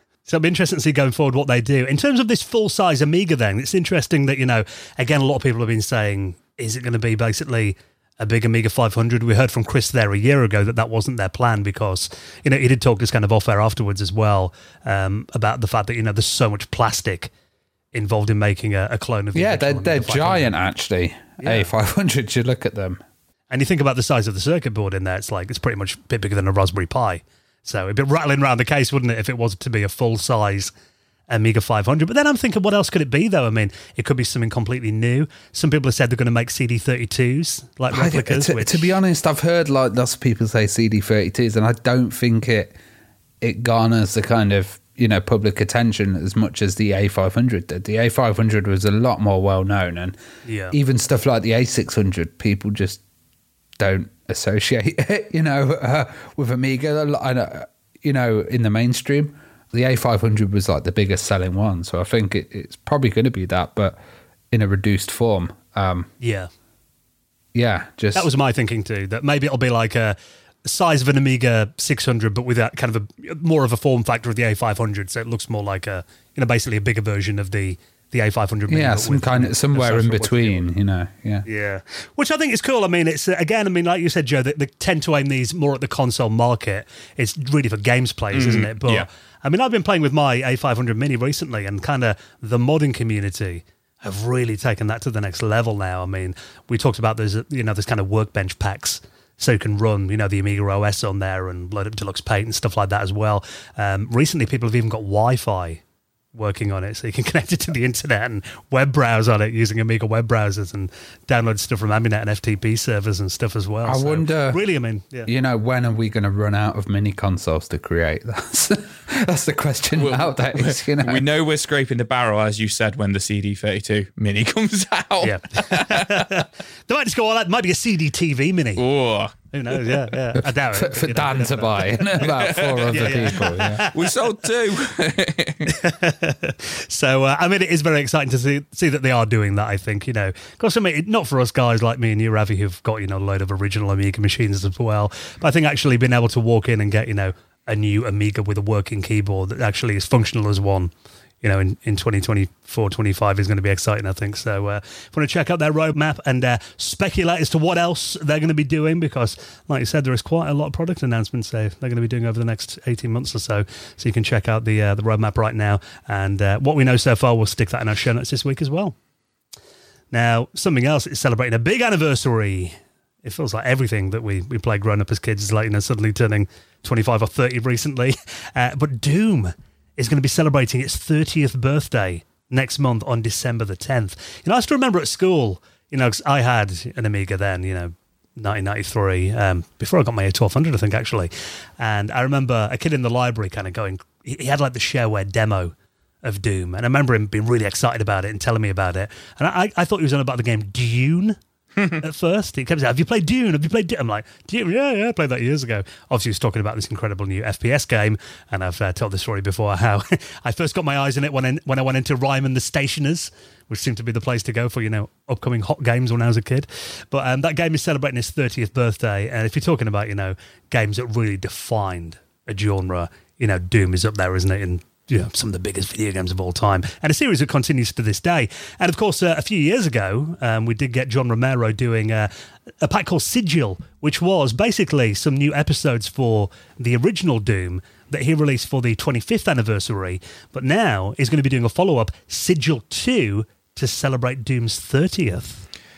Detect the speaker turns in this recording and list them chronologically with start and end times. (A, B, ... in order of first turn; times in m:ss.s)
0:00.2-0:17.3 A
0:17.9-0:20.5 A
0:19.3-0:23.0 B
0:21.4-0:21.7 A
0:23.5-0:30.7 A
0:31.3-0:39.0 A
0:37.9-0:42.8 B
0:43.4-0:50.2 B
0:50.4-0:50.7 A
0:50.7-0:53.0 B
0:53.8-1:04.0 B
1:04.5-1:06.1 B
1:06.2-1:06.5 A
1:07.5-1:08.3 B
1:08.1-1:20.6 A
1:18.7-1:21.4 B
1:21.5-1:45.8 A
1:28.3-1:29.1 C
1:46.3-1:55.3 A
1:53.8-1:54.6 B
1:55.2-2:01.2 B
2:00.0-2:06.4 C
2:05.2-2:08.8 A
2:08.8-2:09.3 C
2:09.5-2:12.2 A
2:10.3-2:13.8 B
2:12.3-2:13.0 C
2:12.9-2:13.9 A
2:13.9-2:15.7 C
2:15.7-2:48.9 A
2:50.1-3:21.4 A
3:22.0-4:05.6 A